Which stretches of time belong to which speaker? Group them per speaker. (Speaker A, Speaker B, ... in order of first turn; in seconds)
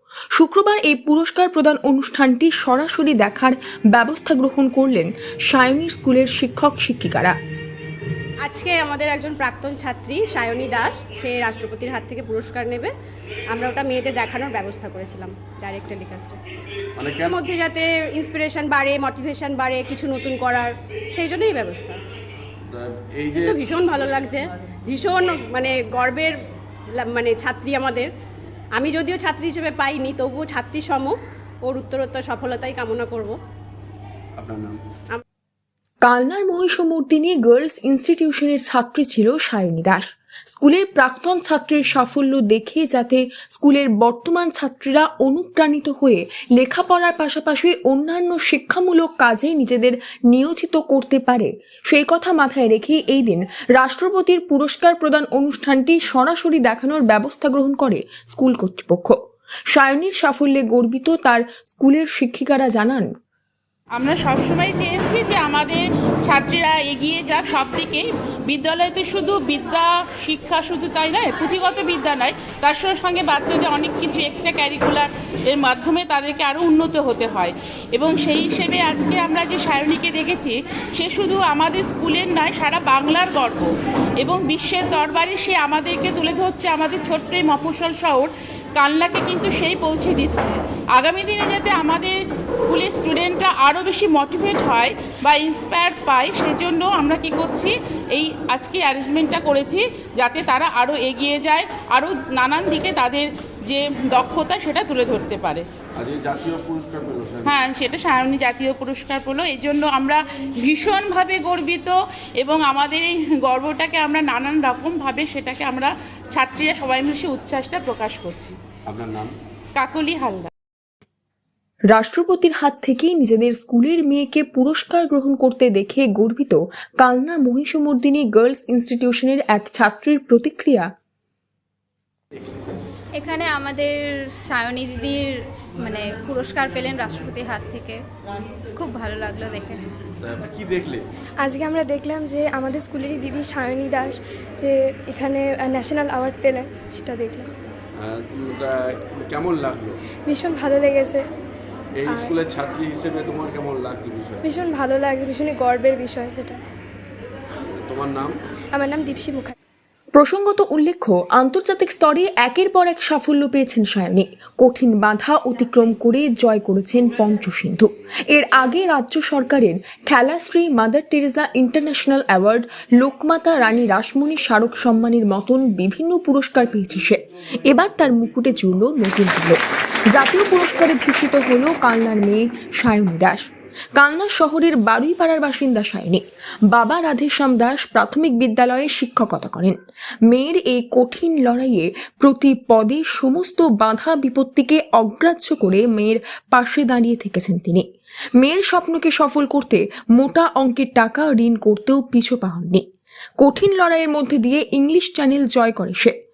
Speaker A: 0.3-7.3, 36.0-59.1, 59.7-63.1, 121.9-130.9, 160.1-179.6, 180.1-197.8, 198.4-202.8, 203.4-206.1
Speaker B: 8.4-12.9, 13.5-16.4, 17.2-22.0, 23.3-26.3, 26.9-28.1, 28.8-33.4
Speaker C: 17.0-17.7, 22.7-24.0, 34.4-34.8, 106.0-107.5, 118.9-119.3, 140.2-141.0, 148.0-150.0, 152.0-154.4, 157.8-158.3
Speaker D: 64.0-105.7, 107.5-118.5, 119.8-120.5
Speaker E: 133.2-138.0, 138.7-139.8
Speaker F: 141.4-147.5, 150.3-151.2, 152.1-152.3, 154.4-156.6, 158.7-159.5